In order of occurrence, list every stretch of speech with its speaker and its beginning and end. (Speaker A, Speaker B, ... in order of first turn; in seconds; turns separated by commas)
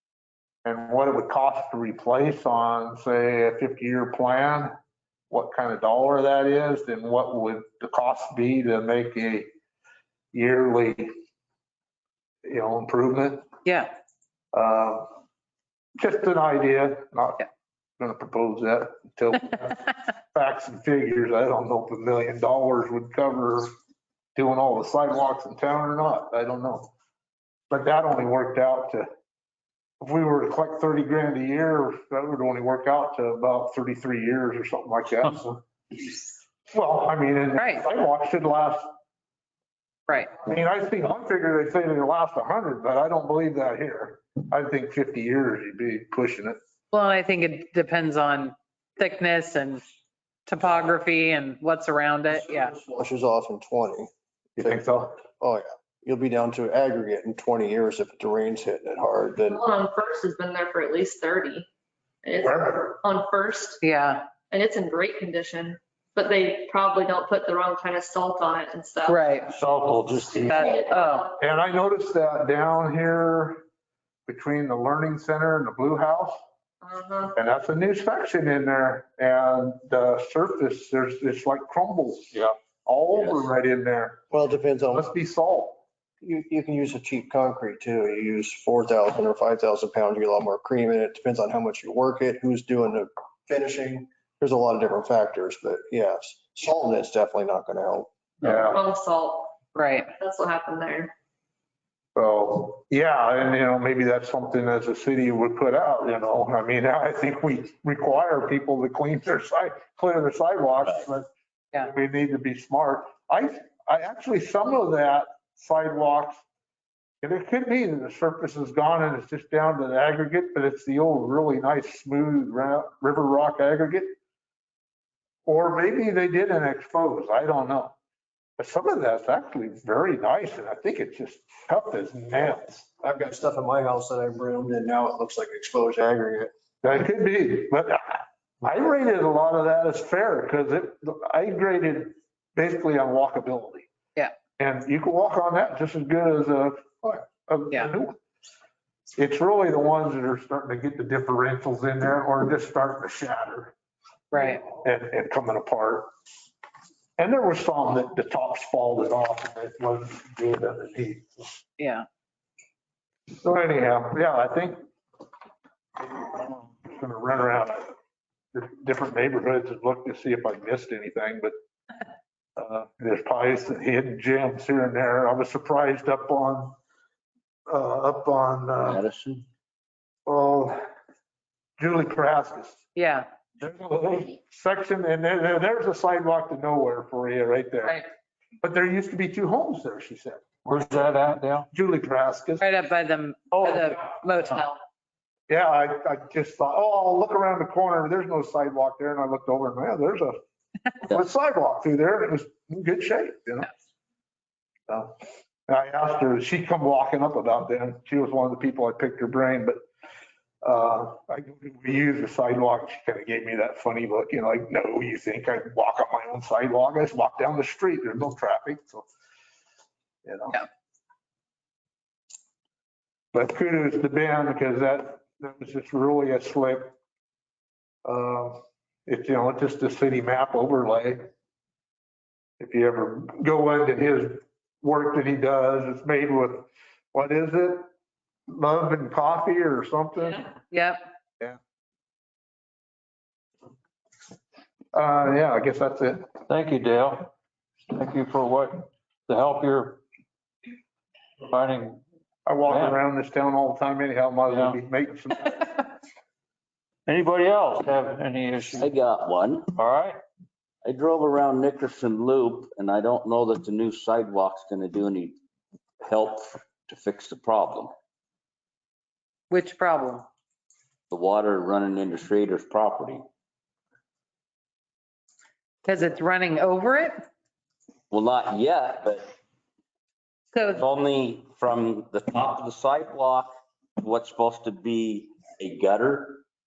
Speaker A: 0.6-4.7, Speaker A: 5.3-9.5, Speaker A: 10.3-11.1, Speaker A: 12.4-13.5, Speaker B: 13.6-13.9, Speaker A: 14.5-15.1, Speaker A: 16.0-17.4, Speaker A: 18.0-23.7, Speaker A: 24.4-26.9, Speaker A: 27.7-29.1, Speaker A: 30.0-35.6, Speaker A: 36.7-38.9, Speaker B: 37.5-37.8, Speaker B: 40.1-40.3, Speaker A: 40.4-46.6, Speaker B: 46.9-49.8, Speaker B: 50.5-52.7, Speaker C: 52.3-54.8, Speaker A: 54.6-55.2, Speaker C: 55.4-59.6, Speaker D: 59.5-61.7, Speaker D: 62.2-63.8, Speaker A: 62.5-62.8, Speaker B: 63.8-64.2, Speaker D: 64.5-69.5, Speaker B: 69.0-69.5, Speaker E: 69.5-70.7, Speaker B: 70.5-71.3, Speaker D: 70.5-71.3, Speaker A: 71.4-73.6, Speaker A: 74.3-76.4, Speaker D: 76.8-77.3, Speaker A: 77.3-82.3, Speaker A: 82.8-84.2, Speaker C: 84.3-85.1, Speaker A: 84.9-85.8, Speaker C: 86.2-98.1, Speaker A: 98.4-98.8, Speaker D: 98.7-99.6, Speaker B: 99.7-100.1, Speaker D: 100.2-101.1, Speaker A: 102.2-116.4, Speaker A: 117.2-124.1, Speaker A: 125.5-127.9, Speaker A: 128.6-132.9, Speaker C: 133.0-136.5, Speaker A: 136.8-143.9, Speaker A: 144.6-148.2, Speaker A: 149.2-153.7, Speaker B: 154.3-154.6, Speaker A: 154.7-156.1, Speaker A: 157.2-161.6, Speaker B: 161.8-162.1, Speaker A: 163.4-164.8, Speaker A: 166.0-167.9, Speaker A: 168.5-171.5, Speaker A: 172.6-176.8, Speaker A: 177.7-179.0, Speaker F: 178.9-179.4, Speaker A: 180.2-180.8, Speaker A: 181.8-182.8, Speaker B: 182.9-183.3, Speaker A: 183.6-188.0, Speaker A: 188.6-190.4, Speaker E: 190.6-191.7, Speaker A: 191.7-192.6, Speaker B: 192.6-194.8, Speaker E: 193.5-193.9, Speaker A: 195.5-200.4, Speaker A: 201.0-203.7, Speaker A: 204.9-205.1, Speaker A: 205.7-209.8, Speaker A: 210.6-219.1, Speaker A: 220.2-220.6, Speaker A: 223.3-226.9, Speaker A: 228.0-231.2, Speaker A: 232.6-237.8, Speaker A: 238.5-240.5, Speaker B: 240.7-241.0, Speaker A: 244.9-246.2, Speaker E: 246.5-247.3, Speaker E: 247.9-250.0, Speaker E: 251.5-252.0, Speaker A: 252.4-255.8, Speaker E: 252.6-253.0, Speaker E: 254.5-254.8, Speaker E: 257.1-258.9, Speaker F: 258.8-259.7, Speaker E: 259.7-260.2, Speaker F: 260.8-265.3, Speaker F: 266.0-267.9, Speaker B: 269.5-270.2, Speaker F: 271.1-273.2, Speaker B: 275.8-277.1, Speaker F: 278.1-279.2, Speaker B: 280.5-280.8, Speaker F: 280.7-283.4, Speaker F: 284.0-286.4